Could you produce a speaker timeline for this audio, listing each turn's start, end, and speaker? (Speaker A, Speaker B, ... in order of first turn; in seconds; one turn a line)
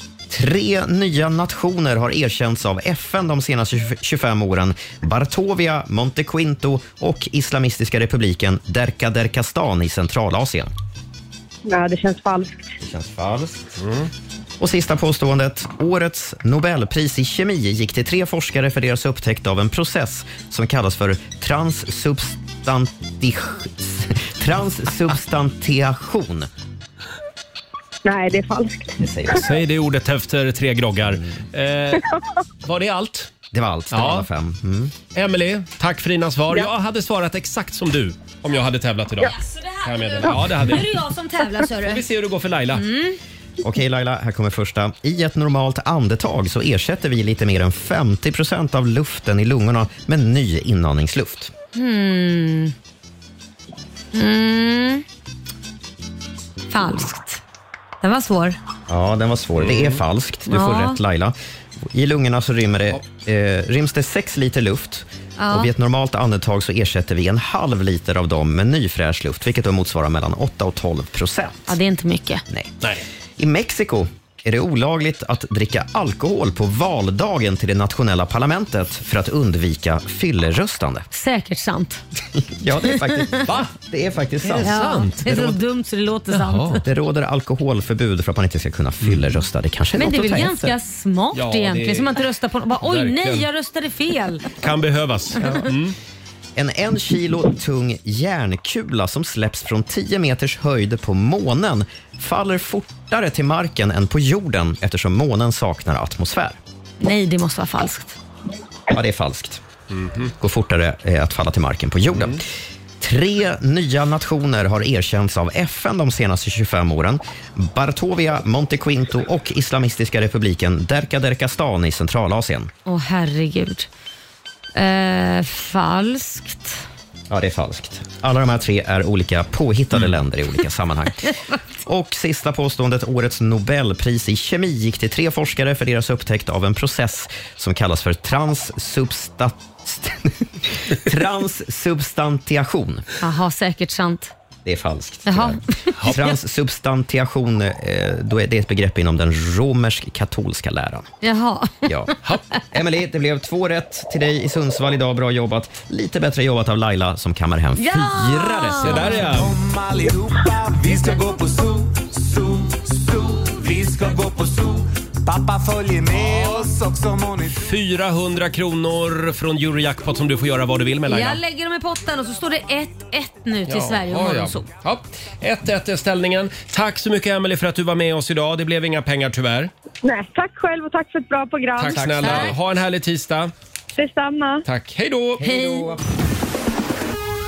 Speaker A: 0.3-10.7
Speaker B: 11.7-12.5
Speaker A: 12.8-13.8
Speaker A: 14.6-26.5
Speaker B: 28.0-28.9
Speaker A: 29.0-29.5
Speaker C: 29.3-32.0
Speaker C: 32.6-33.3
Speaker A: 33.5-34.9
Speaker C: 33.9-34.3
Speaker C: 35.1-40.9
Speaker D: 39.2-42.0
Speaker C: 41.7-42.9
Speaker D: 42.7-43.2
Speaker A: 43.6-51.5
Speaker D: 51.7-52.7
Speaker D: 54.1-55.0
Speaker D: 56.7-57.4
Speaker D: 58.0-58.6
Speaker A: 58.9-71.8
Speaker C: 59.6-60.0
Speaker D: 60.5-61.0
Speaker D: 65.4-65.7
Speaker D: 71.7-72.4
Speaker A: 72.5-72.7
Speaker A: 73.4-81.1
Speaker D: 81.1-82.0
Speaker A: 82.4-85.6
Speaker D: 82.9-83.2
Speaker C: 84.4-85.2
Speaker D: 84.6-86.8
Speaker C: 86.3-86.8
Speaker A: 86.8-90.7
Speaker D: 90.0-94.4
Speaker C: 91.3-92.2
Speaker C: 92.8-93.5
Speaker C: 94.6-95.9
Speaker D: 95.4-95.7
Speaker A: 96.5-106.6
Speaker D: 107.0-108.2
Speaker A: 108.9-109.6
Speaker C: 109.9-110.3
Speaker A: 110.4-112.4
Speaker A: 113.0-122.7
Speaker D: 122.8-123.9
Speaker D: 124.7-126.8
Speaker A: 127.3-131.3
Speaker A: 131.8-143.0
Speaker D: 143.2-144.3
Speaker A: 144.6-151.1
Speaker D: 145.2-146.3
Speaker D: 151.2-152.2
Speaker A: 151.8-152.1
Speaker A: 152.7-159.3
Speaker D: 157.8-159.2
Speaker C: 158.8-159.6
Speaker E: 159.3-167.7
Speaker C: 166.1-166.6
Speaker C: 167.5-171.4
Speaker D: 171.1-174.7
Speaker C: 173.7-179.7
Speaker B: 180.1-182.0
Speaker C: 181.8-183.5
Speaker A: 182.0-182.3
Speaker B: 184.0-184.6
Speaker C: 184.6-185.4
Speaker A: 185.4-186.0
Speaker D: 185.4-185.9